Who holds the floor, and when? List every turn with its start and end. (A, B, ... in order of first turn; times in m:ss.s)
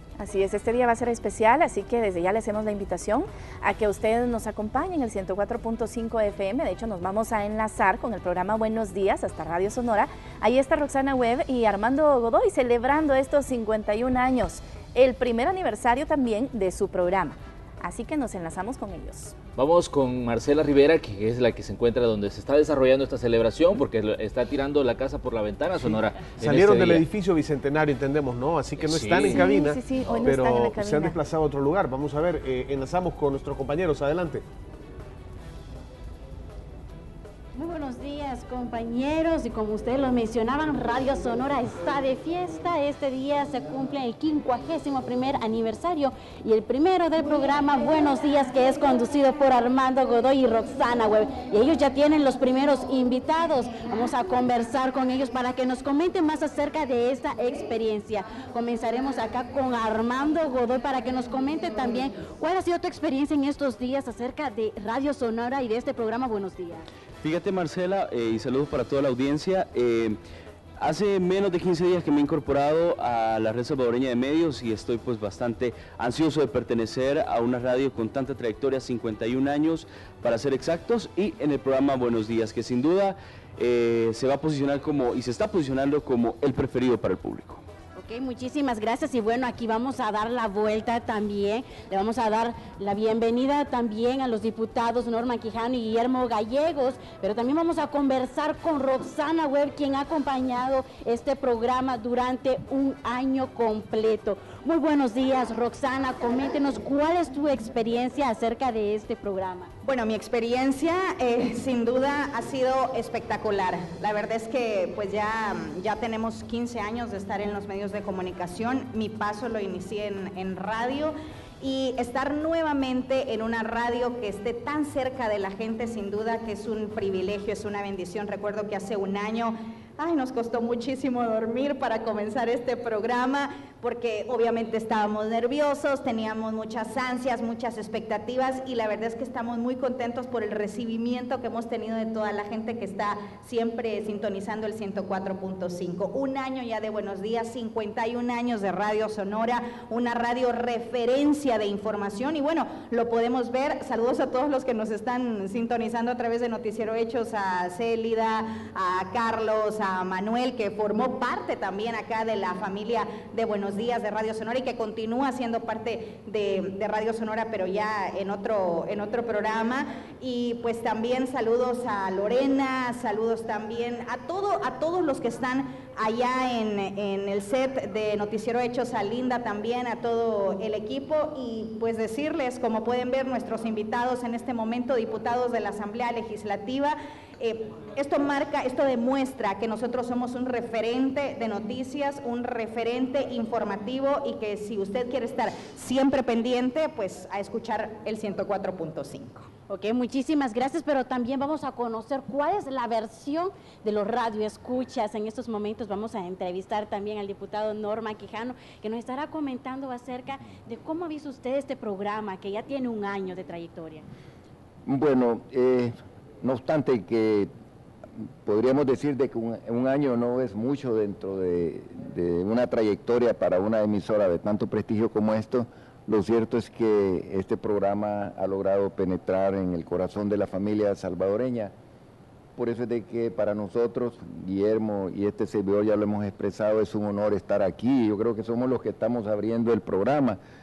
0:00.2-0:19.4 A
0:19.6-0:27.0 B
0:25.9-0:34.4 C
0:28.8-0:29.5 B
0:29.1-0:31.2 A
0:37.6-1:06.8 D
1:07.2-1:10.2 E
1:10.8-1:27.6 E
1:28.0-1:49.7 D
1:49.8-3:19.5 F
3:19.7-3:34.0 D
3:34.9-3:37.5 G
3:38.4-3:51.7 G
3:52.6-4:00.4 G